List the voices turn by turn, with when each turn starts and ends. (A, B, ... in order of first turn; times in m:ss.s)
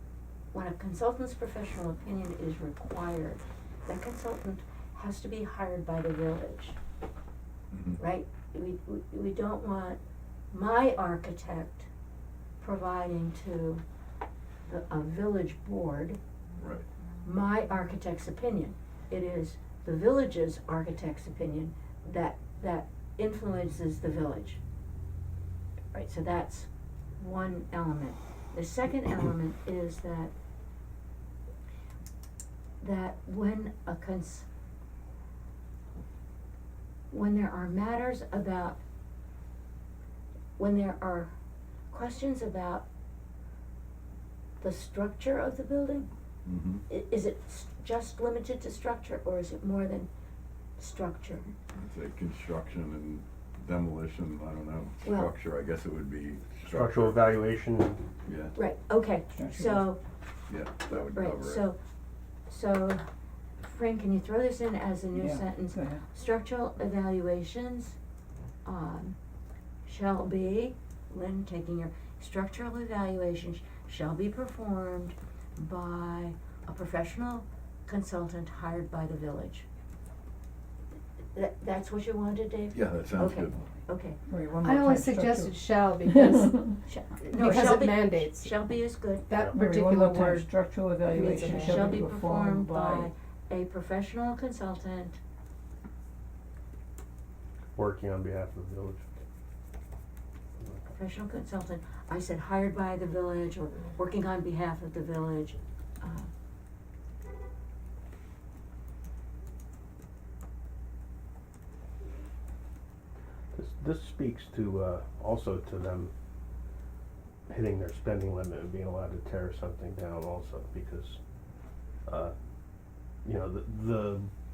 0:00.5-0:06.8 A
0:07.7-0:08.0 B
0:08.0-0:10.0 A
0:10.5-0:11.9 A
0:12.6-0:13.8 A
0:14.7-0:16.2 A
0:16.6-0:16.8 B
0:17.2-0:24.6 A
0:25.9-0:30.3 A
0:32.8-0:34.5 A
0:37.1-0:38.8 A
0:40.6-0:41.3 A
0:41.9-0:42.8 A
0:44.6-0:46.1 A
0:46.4-0:46.8 B
0:46.9-0:50.1 A
0:50.8-0:51.5 A
0:51.8-0:57.3 B
0:55.0-0:55.3 A
0:56.6-0:58.0 C
0:58.2-0:58.6 B
0:58.5-1:00.0 A
0:59.3-0:59.8 D
1:00.5-1:01.6 B
1:00.9-1:01.8 A
1:02.5-1:03.0 A
1:03.6-1:08.0 A
1:05.1-1:06.0 D
1:08.6-1:09.2 A
1:09.8-1:19.7 A
1:21.3-1:24.2 A
1:22.7-1:23.6 B
1:24.3-1:26.8 D
1:24.7-1:28.5 E
1:26.8-1:29.3 A
1:29.3-1:30.4 E
1:29.5-1:33.1 D
1:31.1-1:35.2 A
1:31.3-1:31.8 E
1:37.7-1:39.0 C
1:40.9-1:46.3 A
1:53.5-1:56.1 C
1:57.5-2:01.2 C
2:02.0-2:02.3 C
2:03.2-2:04.3 C